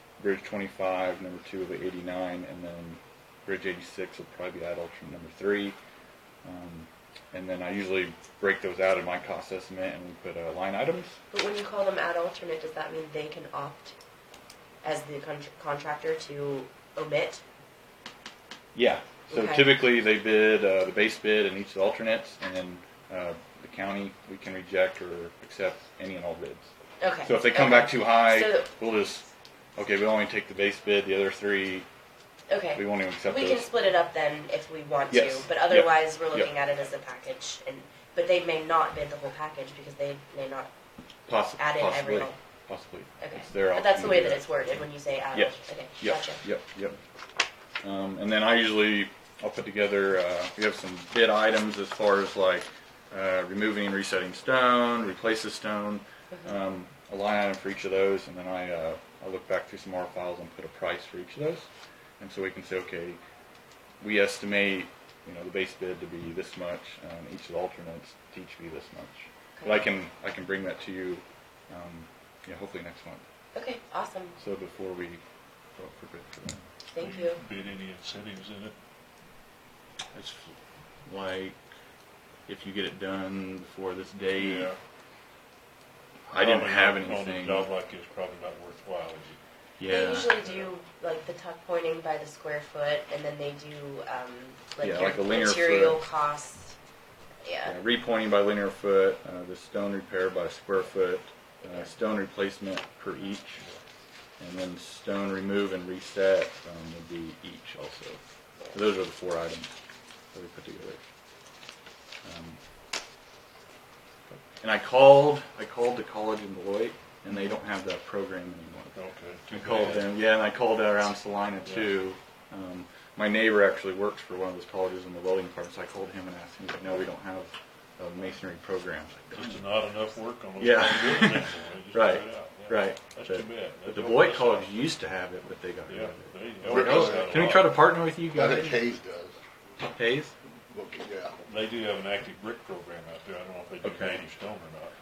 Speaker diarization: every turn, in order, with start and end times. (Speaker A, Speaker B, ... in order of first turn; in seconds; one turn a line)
Speaker A: 0.2-5.8
Speaker A: 6.4-11.2
Speaker B: 11.3-13.9
Speaker B: 14.8-17.4
Speaker A: 18.7-26.7
Speaker B: 19.3-19.7
Speaker B: 27.0-28.7
Speaker A: 27.2-31.9
Speaker B: 32.5-40.7
Speaker A: 32.7-33.7
Speaker A: 35.1-36.5
Speaker A: 41.3-44.5
Speaker B: 41.6-42.4
Speaker B: 43.2-46.4
Speaker A: 45.3-47.0
Speaker A: 47.8-61.7
Speaker A: 62.2-63.2
Speaker A: 64.0-73.2
Speaker B: 69.6-69.9
Speaker B: 73.5-74.4
Speaker A: 74.4-75.2
Speaker A: 75.8-76.6
Speaker B: 76.9-77.4
Speaker C: 77.0-78.7
Speaker A: 80.1-81.6
Speaker A: 82.5-84.7
Speaker C: 84.4-84.8
Speaker A: 86.3-87.7
Speaker C: 86.4-89.4
Speaker A: 89.8-90.3
Speaker B: 89.9-96.8
Speaker A: 94.8-96.0
Speaker B: 97.4-97.8
Speaker A: 97.6-103.6
Speaker A: 104.4-108.2
Speaker A: 108.7-109.7
Speaker A: 110.3-111.0
Speaker A: 112.2-112.6
Speaker A: 114.3-119.0
Speaker C: 118.9-120.0
Speaker A: 119.5-129.6
Speaker C: 129.3-134.7
Speaker A: 130.6-138.8
Speaker C: 135.9-137.6
Speaker D: 136.6-137.5
Speaker D: 138.3-139.4
Speaker A: 139.8-140.3
Speaker D: 140.7-141.4
Speaker C: 141.4-144.9
Speaker A: 143.8-144.2